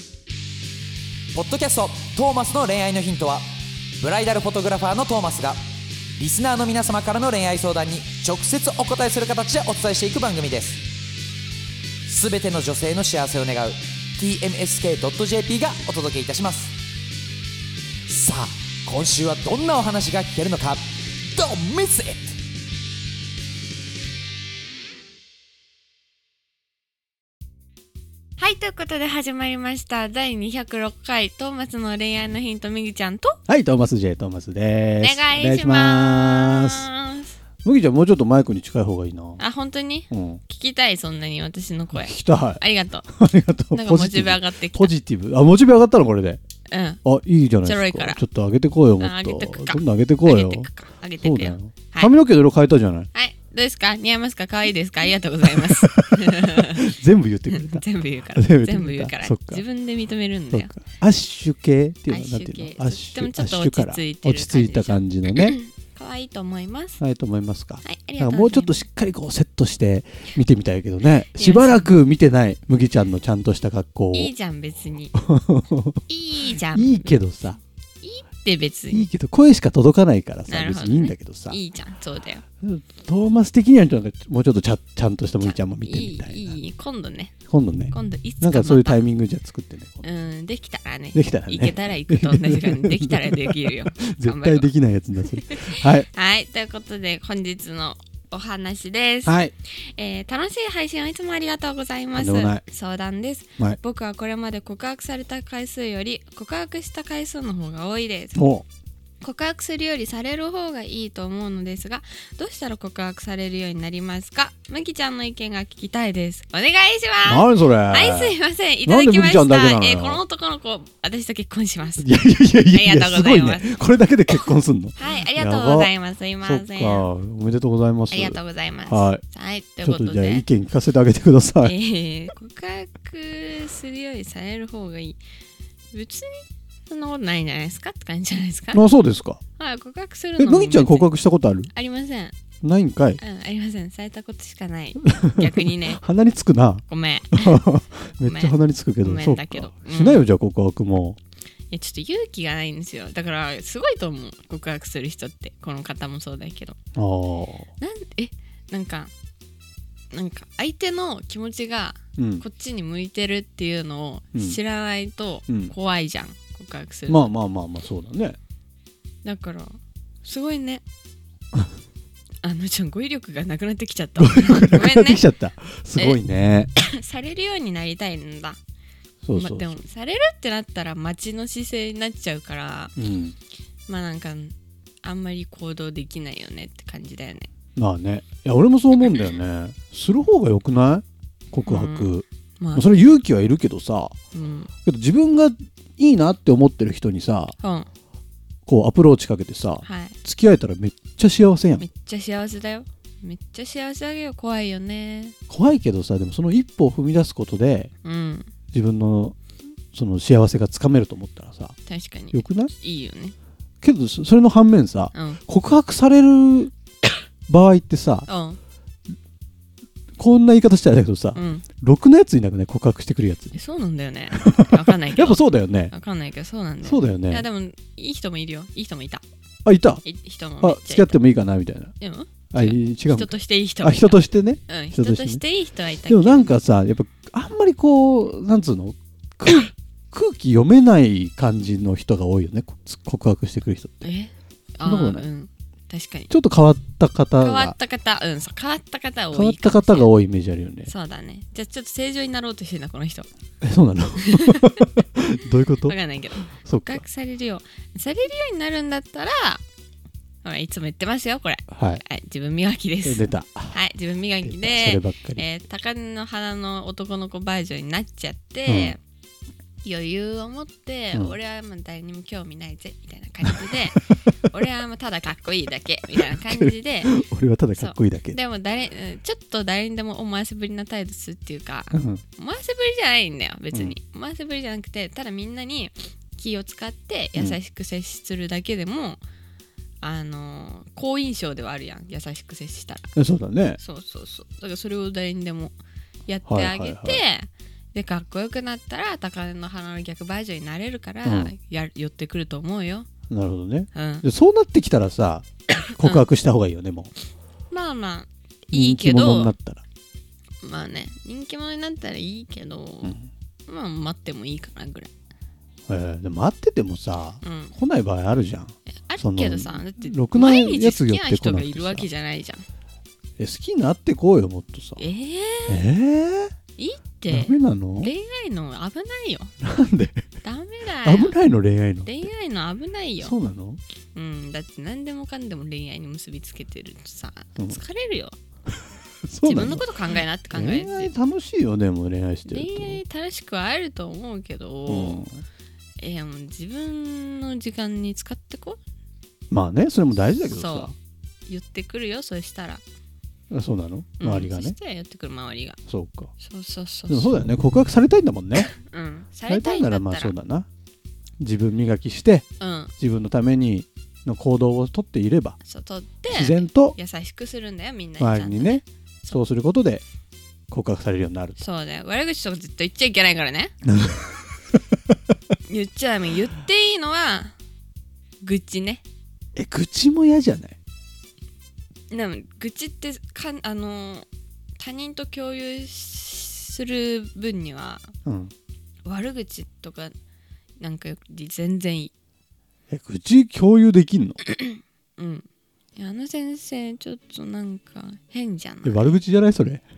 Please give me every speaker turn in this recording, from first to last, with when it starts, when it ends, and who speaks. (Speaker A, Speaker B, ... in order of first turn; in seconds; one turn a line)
Speaker A: 1.3-3.5
Speaker A: 4.0-5.6
Speaker A: 6.2-10.8
Speaker A: 12.0-16.7
Speaker A: 18.1-22.3
Speaker B: 28.4-33.4
Speaker C: 33.5-36.9
Speaker B: 35.0-37.3
Speaker C: 37.6-39.4
Speaker B: 39.4-43.1
Speaker C: 40.1-40.4
Speaker C: 41.9-46.4
Speaker B: 43.7-44.9
Speaker B: 46.7-47.0
Speaker C: 47.0-53.1
Speaker B: 47.6-48.2
Speaker B: 49.0-52.1
Speaker B: 53.1-57.0
Speaker C: 55.4-59.6
Speaker B: 57.5-60.8
Speaker C: 60.5-65.6
Speaker B: 62.1-67.0
Speaker C: 67.0-74.3
Speaker B: 67.8-68.8
Speaker B: 71.4-71.9
Speaker B: 74.1-75.2
Speaker C: 75.1-76.0
Speaker B: 76.1-77.3
Speaker C: 76.5-77.6
Speaker B: 78.0-79.1
Speaker C: 78.9-81.6
Speaker B: 80.5-82.4
Speaker C: 82.6-86.5
Speaker B: 85.4-87.3
Speaker C: 87.5-90.0
Speaker B: 87.9-89.0
Speaker B: 90.0-94.7
Speaker C: 91.1-96.1
Speaker B: 95.3-108.5
Speaker C: 99.2-99.5
Speaker C: 102.1-102.6
Speaker C: 108.3-108.7
Speaker B: 109.2-122.1
Speaker C: 117.2-120.2
Speaker C: 122.0-125.9
Speaker B: 122.6-123.8
Speaker B: 125.0-127.1
Speaker C: 126.4-129.2
Speaker B: 128.1-130.4
Speaker C: 129.8-131.7
Speaker B: 131.6-135.2
Speaker B: 135.9-138.9
Speaker C: 138.7-139.4
Speaker B: 139.6-141.1
Speaker C: 140.4-141.7
Speaker B: 141.7-142.3
Speaker C: 142.6-143.2
Speaker B: 143.2-146.0
Speaker C: 145.0-151.2
Speaker B: 146.9-150.3
Speaker B: 151.7-156.8
Speaker C: 156.9-157.7
Speaker B: 157.8-159.1
Speaker B: 160.1-167.3
Speaker C: 162.2-162.4
Speaker C: 164.3-164.6
Speaker C: 167.1-168.4
Speaker B: 169.2-170.8
Speaker B: 172.4-175.2
Speaker C: 174.2-176.7
Speaker B: 176.8-178.6
Speaker C: 179.2-179.8
Speaker B: 179.3-182.9
Speaker C: 183.0-183.3
Speaker B: 183.9-187.5
Speaker C: 187.8-194.1
Speaker B: 191.7-193.0
Speaker B: 194.3-194.7
Speaker C: 194.8-197.5
Speaker B: 197.6-197.9
Speaker C: 198.7-201.8
Speaker B: 199.8-200.2
Speaker B: 201.8-205.3
Speaker C: 205.5-207.9
Speaker B: 208.0-208.5
Speaker C: 208.7-209.4
Speaker C: 209.9-211.8
Speaker B: 211.9-213.3
Speaker C: 212.3-212.7
Speaker C: 213.8-216.7
Speaker B: 215.1-215.4
Speaker C: 217.5-218.3
Speaker B: 218.3-218.6
Speaker C: 220.2-223.6
Speaker B: 221.3-221.7
Speaker B: 223.5-229.2
Speaker C: 224.3-225.9
Speaker C: 226.8-227.5
Speaker C: 229.6-230.0
Speaker B: 230.0-231.2
Speaker C: 230.6-231.9
Speaker B: 232.0-236.6
Speaker C: 232.5-235.4
Speaker C: 236.1-244.1
Speaker B: 244.0-246.3
Speaker C: 244.8-245.2
Speaker C: 246.3-247.8
Speaker B: 247.4-250.1
Speaker C: 249.3-250.9
Speaker B: 250.8-253.3
Speaker C: 253.6-256.0
Speaker B: 254.2-254.8
Speaker B: 255.8-259.6
Speaker C: 256.5-257.0
Speaker B: 260.4-269.0
Speaker C: 261.7-262.0
Speaker C: 263.0-263.8
Speaker C: 264.4-265.4
Speaker C: 268.6-268.9
Speaker B: 269.8-277.2
Speaker C: 276.1-278.4
Speaker B: 277.8-289.2
Speaker C: 281.9-282.2
Speaker B: 290.0-293.2
Speaker C: 293.1-293.8
Speaker B: 293.8-295.7
Speaker B: 296.3-303.1
Speaker C: 296.4-297.2
Speaker C: 301.2-301.5
Speaker C: 303.3-307.1
Speaker B: 303.9-304.2
Speaker B: 305.9-306.3
Speaker B: 307.7-309.5
Speaker C: 308.7-309.8
Speaker B: 310.6-313.1
Speaker B: 313.7-315.1
Speaker C: 315.9-322.1
Speaker B: 317.4-317.7
Speaker B: 319.1-322.6
Speaker C: 323.4-325.0
Speaker B: 325.0-325.8
Speaker C: 325.7-326.5
Speaker B: 326.8-329.5
Speaker C: 327.3-328.1
Speaker C: 329.6-330.2
Speaker B: 330.4-331.4
Speaker C: 331.0-332.3
Speaker B: 332.0-333.3
Speaker C: 333.2-333.8
Speaker B: 334.1-338.3
Speaker C: 339.3-339.9
Speaker B: 339.4-341.1
Speaker C: 340.5-343.0
Speaker B: 342.5-345.2
Speaker C: 344.9-345.4
Speaker B: 346.0-348.8
Speaker C: 349.5-350.9
Speaker B: 350.4-350.9
Speaker B: 351.5-352.8
Speaker C: 353.5-354.7
Speaker B: 354.2-355.8
Speaker C: 355.9-356.3
Speaker B: 356.4-357.3
Speaker C: 357.1-358.7
Speaker B: 358.7-360.3
Speaker C: 359.5-360.7
Speaker C: 361.4-362.4
Speaker B: 362.6-362.9
Speaker C: 363.0-365.6
Speaker B: 365.6-369.4
Speaker C: 366.3-366.9
Speaker C: 368.2-370.0
Speaker C: 370.7-371.6
Speaker B: 371.6-373.7
Speaker C: 373.8-374.4
Speaker B: 375.7-377.5
Speaker B: 378.4-379.0
Speaker C: 379.5-380.8
Speaker B: 382.1-388.1
Speaker C: 388.2-388.5
Speaker B: 389.0-390.1
Speaker B: 390.8-392.1
Speaker C: 392.9-394.4
Speaker B: 394.4-399.1
Speaker C: 398.8-399.8